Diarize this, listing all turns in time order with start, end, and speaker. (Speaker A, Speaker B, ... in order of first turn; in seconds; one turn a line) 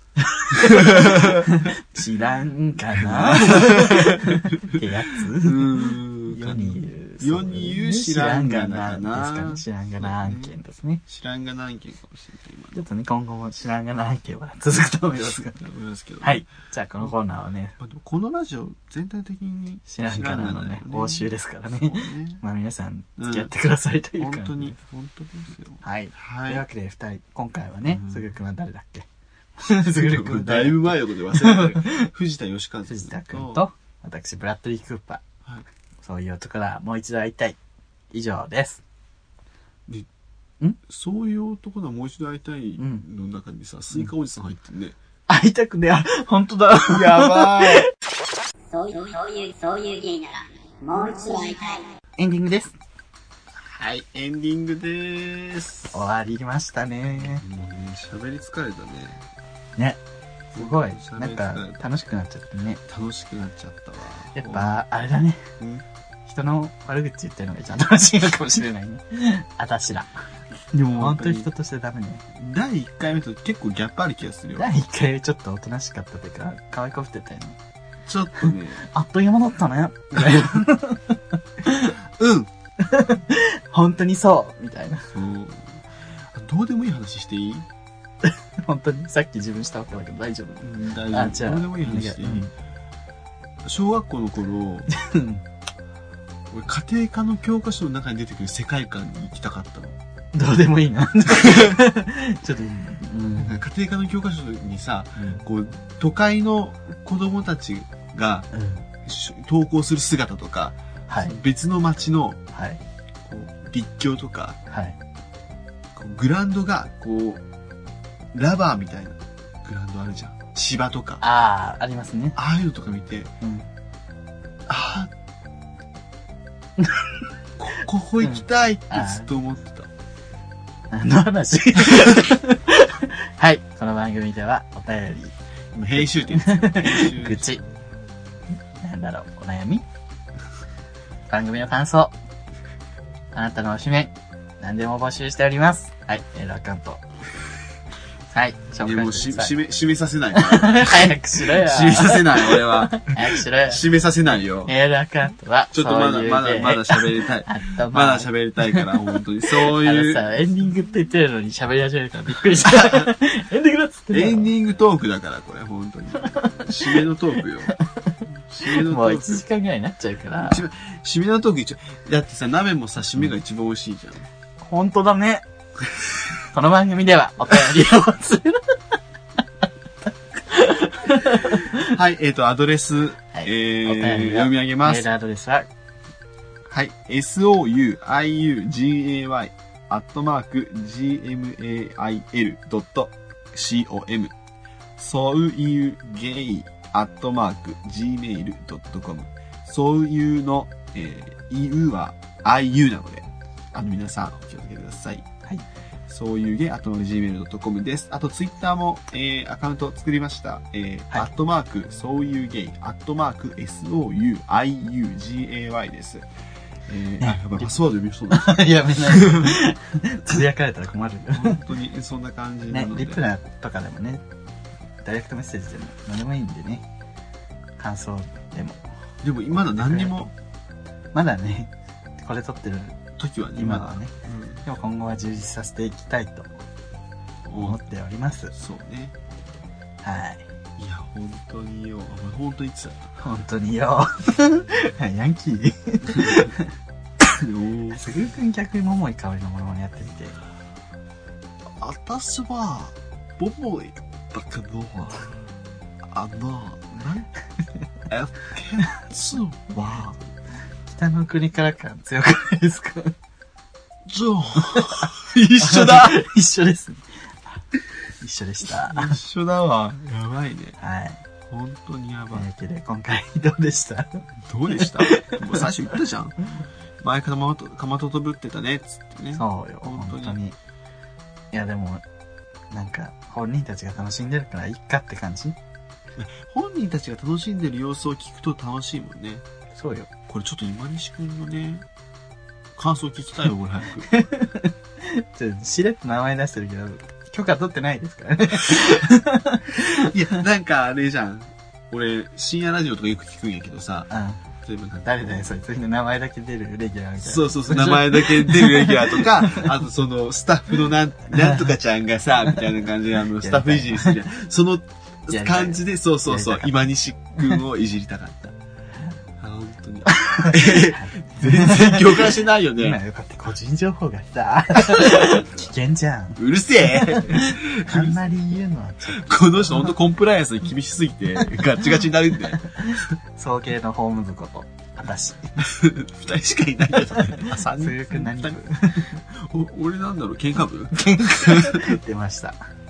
Speaker A: 0.2-11.0
Speaker B: 0.5-1.7
Speaker B: 3.0-10.5
Speaker B: 11.1-12.8
Speaker A: 12.7-15.6
Speaker B: 15.1-16.4
Speaker A: 16.2-17.8
Speaker B: 17.8-22.4
Speaker A: 19.9-24.8
Speaker B: 23.2-23.5
Speaker B: 24.2-26.6
Speaker A: 25.8-29.1
Speaker B: 27.9-28.2
Speaker A: 29.6-32.1
Speaker B: 29.8-33.6
Speaker A: 32.9-35.2
Speaker A: 36.0-37.6
Speaker A: 38.1-38.8
Speaker B: 40.9-45.0
Speaker A: 42.8-43.0
Speaker A: 45.3-47.9
Speaker B: 46.9-47.9
Speaker C: 48.7-51.9
Speaker A: 52.2-52.8
Speaker B: 53.5-55.9
Speaker A: 55.9-57.4
Speaker B: 57.2-59.2
Speaker B: 60.5-61.8
Speaker A: 60.5-62.8
Speaker B: 62.9-64.8
Speaker A: 64.3-65.5
Speaker B: 65.6-65.8
Speaker A: 66.2-70.2
Speaker B: 70.7-71.5
Speaker A: 70.8-72.2
Speaker B: 72.3-74.7
Speaker A: 74.6-77.6
Speaker B: 78.0-78.8
Speaker A: 78.4-82.0
Speaker B: 82.1-82.5
Speaker A: 82.8-85.1
Speaker B: 85.1-87.7
Speaker A: 88.2-92.5
Speaker B: 90.6-92.5
Speaker B: 93.6-94.9
Speaker A: 94.9-95.4
Speaker B: 96.5-100.0
Speaker A: 100.3-103.6
Speaker B: 101.3-101.7
Speaker B: 103.4-108.5
Speaker A: 105.2-105.4
Speaker A: 108.5-108.8
Speaker B: 109.0-112.4
Speaker A: 111.1-111.3
Speaker A: 112.5-112.8
Speaker B: 113.2-114.6
Speaker A: 114.7-115.0
Speaker B: 115.9-117.4
Speaker B: 118.3-121.2
Speaker A: 121.2-122.4
Speaker B: 122.3-123.3
Speaker A: 123.4-123.7
Speaker B: 124.7-125.1
Speaker A: 126.8-127.0
Speaker B: 127.6-129.9
Speaker A: 128.2-129.3
Speaker A: 130.9-135.3
Speaker B: 135.7-137.7
Speaker A: 136.0-137.6
Speaker A: 138.8-139.8
Speaker A: 141.3-142.1
Speaker A: 143.3-147.0
Speaker A: 148.3-149.5
Speaker B: 148.8-154.7
Speaker A: 150.3-153.8
Speaker A: 154.7-158.9
Speaker B: 155.7-160.4
Speaker A: 159.5-164.5
Speaker B: 162.6-163.1
Speaker B: 164.1-167.7
Speaker A: 166.2-167.1
Speaker A: 167.7-170.6
Speaker B: 168.5-169.4
Speaker B: 170.4-174.3
Speaker A: 174.6-175.4
Speaker A: 176.5-179.0
Speaker A: 180.5-181.9
Speaker B: 181.5-185.1
Speaker A: 183.3-185.7
Speaker B: 186.7-194.3
Speaker B: 195.0-205.2
Speaker B: 206.1-216.2
Speaker B: 216.9-219.6
Speaker A: 217.2-217.7
Speaker A: 218.3-221.6
Speaker B: 221.3-223.2
Speaker A: 222.7-224.2
Speaker A: 225.0-226.8
Speaker A: 227.8-228.8
Speaker B: 229.2-230.3
Speaker A: 229.5-230.3
Speaker A: 231.1-233.0
Speaker B: 233.2-234.6
Speaker A: 233.5-234.1
Speaker A: 234.6-236.5
Speaker B: 237.5-237.8
Speaker A: 237.6-238.5
Speaker B: 238.5-239.1
Speaker A: 240.0-240.5
Speaker B: 240.8-243.1
Speaker A: 243.2-246.7
Speaker B: 246.0-246.5
Speaker B: 247.4-248.1
Speaker A: 247.9-250.4
Speaker B: 251.7-255.3
Speaker B: 256.0-257.3
Speaker B: 258.1-260.1
Speaker A: 260.9-263.1
Speaker B: 264.1-266.2
Speaker A: 264.6-267.6
Speaker A: 268.2-269.2
Speaker B: 268.7-270.8
Speaker A: 270.8-271.2
Speaker B: 271.5-272.4
Speaker A: 272.3-275.7
Speaker B: 274.4-276.4
Speaker B: 277.0-280.4
Speaker A: 279.3-280.5
Speaker A: 281.5-282.0
Speaker A: 282.7-285.6
Speaker B: 286.2-289.4
Speaker A: 289.7-290.1
Speaker B: 290.3-291.9
Speaker B: 292.8-294.1
Speaker A: 294.1-300.1
Speaker B: 299.9-304.1
Speaker A: 304.1-304.4
Speaker B: 304.6-305.5
Speaker A: 305.0-309.7
Speaker B: 307.2-318.6
Speaker A: 311.3-311.7
Speaker A: 313.3-314.2
Speaker A: 315.3-316.8
Speaker B: 319.4-323.0
Speaker A: 320.1-329.9
Speaker B: 324.9-325.3
Speaker B: 326.4-328.3
Speaker B: 329.1-333.1
Speaker A: 332.6-335.7
Speaker B: 335.6-342.0
Speaker A: 337.1-339.2
Speaker A: 340.9-342.6